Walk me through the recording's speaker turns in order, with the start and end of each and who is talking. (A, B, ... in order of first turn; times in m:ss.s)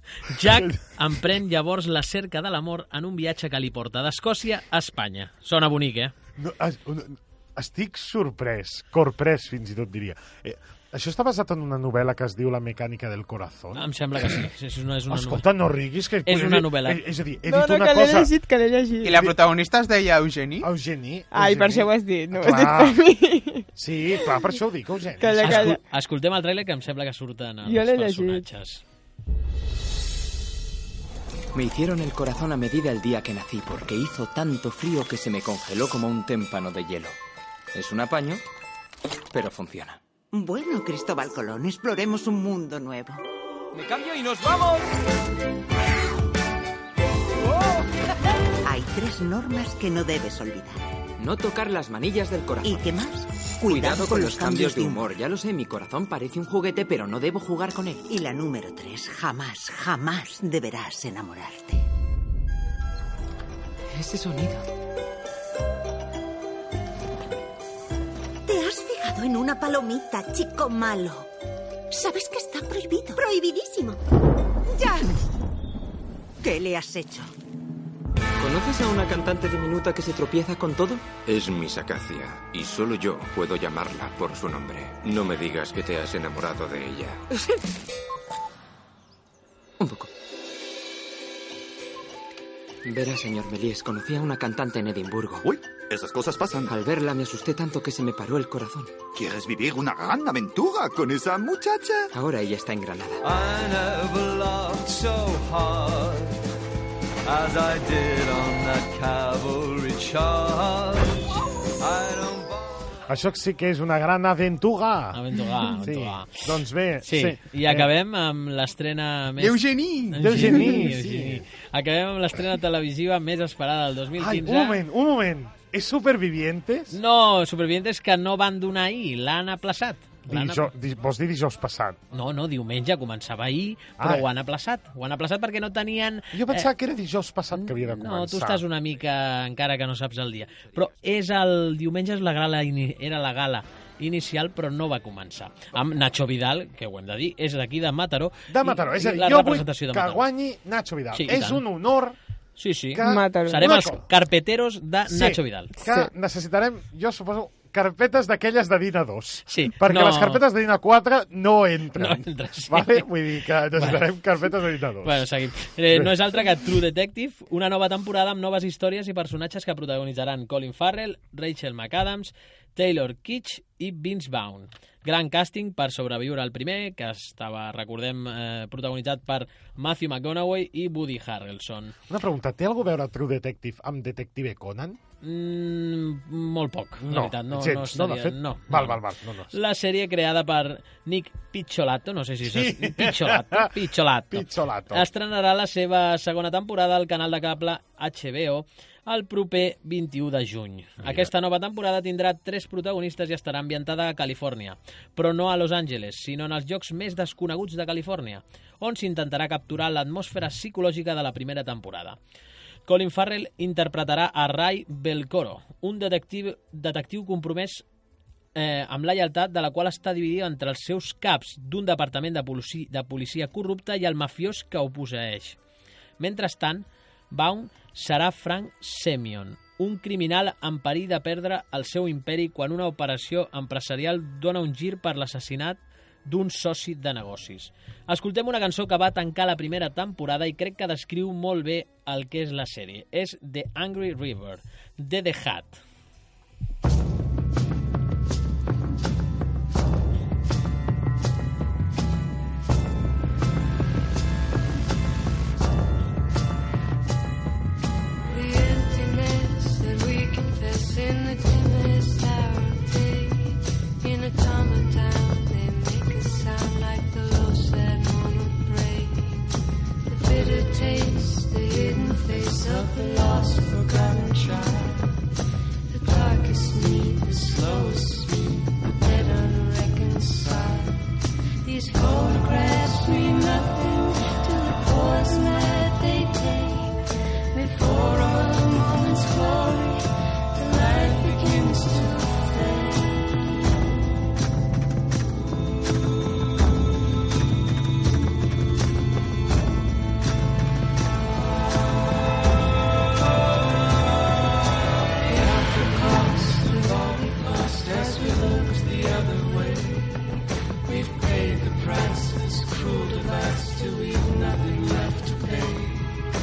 0:00.2-0:06.1 A
0:00.5-0:00.8 B
0:06.4-0:14.4 B
0:13.7-0:15.4 A
0:15.1-0:18.3 B
0:16.2-0:17.0 A
0:17.4-0:19.3 C
0:19.0-0:20.7 D
0:20.6-0:23.0 B
0:21.3-0:23.7 C
0:23.7-0:25.8 B
0:25.2-0:25.8 C
0:25.4-0:28.8 A
0:27.6-0:28.4 C
0:31.5-0:37.2 E
0:37.7-0:38.4 E
0:39.3-0:40.0 E
0:40.3-0:43.2 F
0:48.6-0:50.8 F
0:51.2-0:52.9 E
0:52.6-0:55.1 F
0:53.6-0:58.0 E
0:58.0-1:01.8 F
1:03.9-1:04.6 E
1:08.4-1:11.3 F
1:11.9-1:14.0 F
1:14.7-1:15.1 F
1:16.4-1:17.3 F
1:18.4-1:21.1 E
1:21.1-1:27.2 G
1:29.8-1:30.1 E
1:32.8-1:35.5 E
1:35.5-1:36.6 H
1:36.6-1:38.9 E
1:39.2-1:42.0 H
1:42.1-1:43.2 E
1:53.1-1:55.2 B
1:55.1-1:56.4 A
1:55.8-1:57.9 B
1:57.0-2:04.8 A
1:59.4-2:00.3 D
2:00.2-2:01.4 B
2:04.2-2:07.0 B
2:06.9-2:10.7 A
2:10.3-2:12.0 B
2:12.1-2:16.7 A
2:14.0-2:14.3 B
2:16.3-2:18.6 B
2:17.5-2:30.2 A
2:28.5-2:32.2 B
2:31.1-2:31.6 A
2:32.6-2:35.7 A
2:32.9-2:34.0 B
2:33.0-2:33.7 C
2:35.0-2:45.3 B
2:35.8-2:36.1 C
2:39.5-2:40.4 A
2:42.0-2:43.0 A
2:43.7-2:44.1 A
2:45.0-3:01.9 A
2:45.9-2:46.2 B
3:02.1-3:05.0 B
3:05.2-3:32.2 A
3:07.0-3:09.6 B
3:12.4-3:13.7 B
3:14.3-3:15.1 B
3:21.0-3:21.3 B
3:32.9-3:37.8 A
3:38.6-3:45.6 A
3:46.2-4:05.8 A
4:18.2-4:29.5 I
4:30.0-4:35.2 I
4:35.9-4:41.1 I
4:41.6-4:53.4 I
5:05.2-5:16.2 I